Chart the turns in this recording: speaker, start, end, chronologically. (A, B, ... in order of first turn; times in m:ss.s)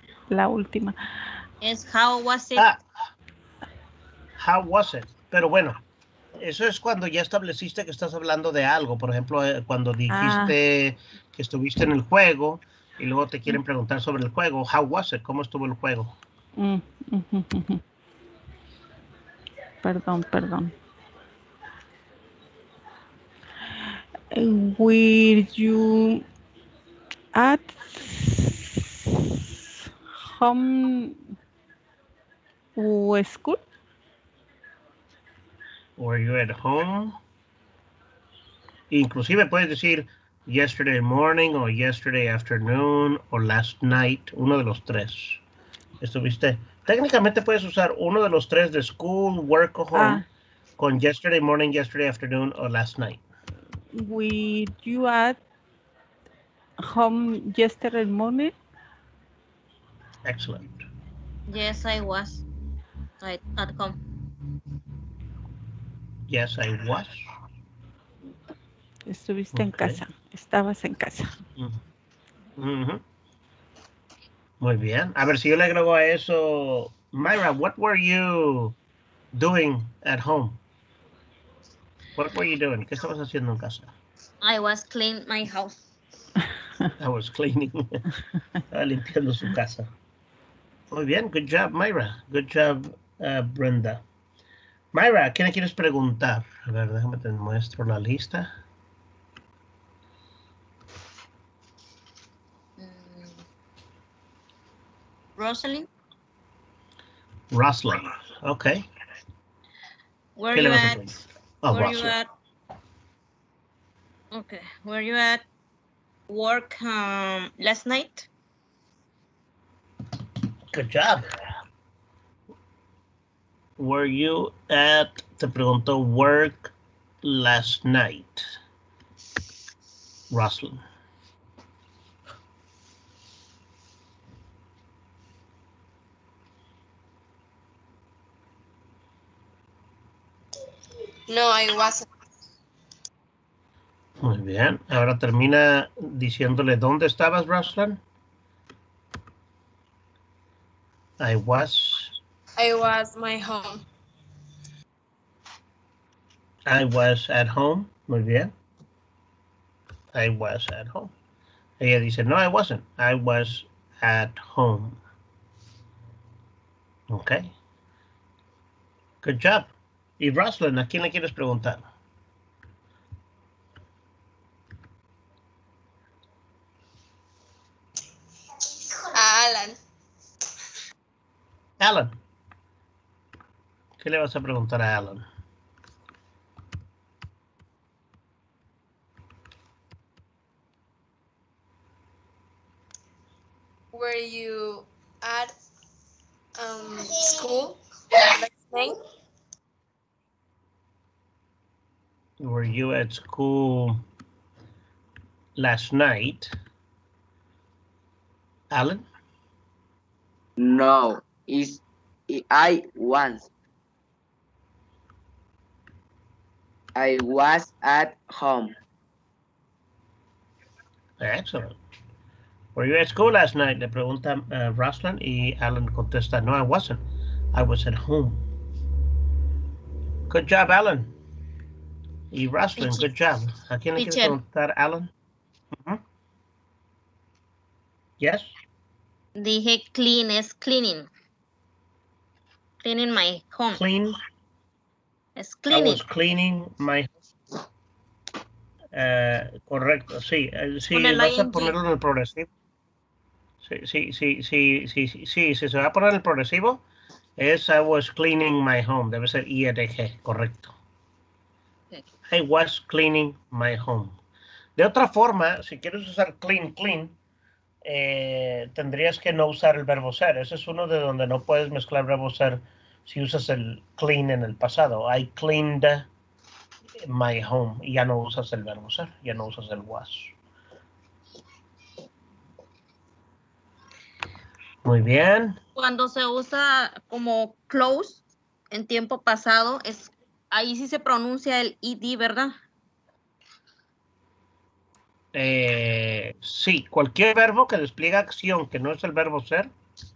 0:00.3-0:01.3 A
0:01.6-0:02.6 B
0:02.6-0:02.8 C
0:04.4-0:05.8 C
0:06.4-0:16.1 C
0:10.1-0:10.6 A
0:16.6-0:17.8 A
0:19.8-0:20.8 A
0:24.3-0:26.2 A
0:27.4-0:31.2 A
0:32.8-0:33.6 A
0:36.0-0:37.2 C
0:38.9-0:45.4 C
0:46.0-0:50.2 C
0:49.9-0:50.2 A
0:50.8-0:53.2 C
0:53.9-0:55.4 A
0:56.8-0:58.6 A
1:00.3-1:00.8 C
1:01.5-1:02.4 B
1:03.2-1:04.0 B
1:06.3-1:07.2 C
1:09.1-1:11.4 A
1:09.5-1:10.0 C
1:12.6-1:13.0 C
1:14.6-1:18.8 C
1:19.4-1:20.6 C
1:22.2-1:23.9 C
1:24.4-1:25.8 B
1:27.0-1:28.0 C
1:28.7-1:29.9 C
1:30.9-1:34.0 C
1:34.9-1:38.5 C
1:42.8-1:43.4 B
1:45.4-1:45.9 B
1:47.5-1:48.8 C
1:50.4-1:51.2 B
1:50.5-1:52.1 C
1:51.7-1:52.3 B
1:54.3-1:55.4 B
1:56.3-1:58.3 B
2:00.7-2:01.3 C
2:03.8-2:08.5 C
2:10.3-2:10.8 C
2:21.3-2:22.1 D
2:24.2-2:28.0 C
2:31.2-2:32.1 C
2:32.6-2:33.8 D
2:36.7-2:38.5 C
2:40.1-2:41.1 C
2:41.8-2:45.0 C
2:47.1-2:47.5 C
2:49.2-2:51.8 C
2:59.1-2:59.8 D
3:01.8-3:02.2 C
3:04.0-3:05.2 C
3:13.9-3:15.5 D
3:16.6-3:19.0 D
3:22.4-3:24.0 C
3:25.6-3:26.5 C
3:28.7-3:29.0 C
3:30.6-3:33.5 E
3:37.0-3:38.7 E
3:41.2-3:41.8 C
3:42.8-3:47.0 C
3:47.5-3:48.4 C
3:50.3-3:51.1 C
3:52.3-3:55.1 C
3:52.8-3:53.0 B
3:54.0-3:54.4 B
3:55.7-3:56.0 C
3:58.2-3:58.5 C
3:59.4-4:01.1 B
4:02.8-4:03.8 B
4:03.7-4:04.2 C
4:05.4-4:06.0 B
4:05.7-4:07.1 C
4:09.0-4:12.5 C
4:10.9-4:11.8 B
4:13.6-4:16.8 C
4:17.4-4:20.7 C
4:22.3-4:24.2 C
4:24.8-4:27.2 C
4:27.8-4:36.1 C
4:37.0-4:40.3 C
4:44.8-4:45.6 C
4:45.8-4:52.6 B
4:55.3-4:59.7 C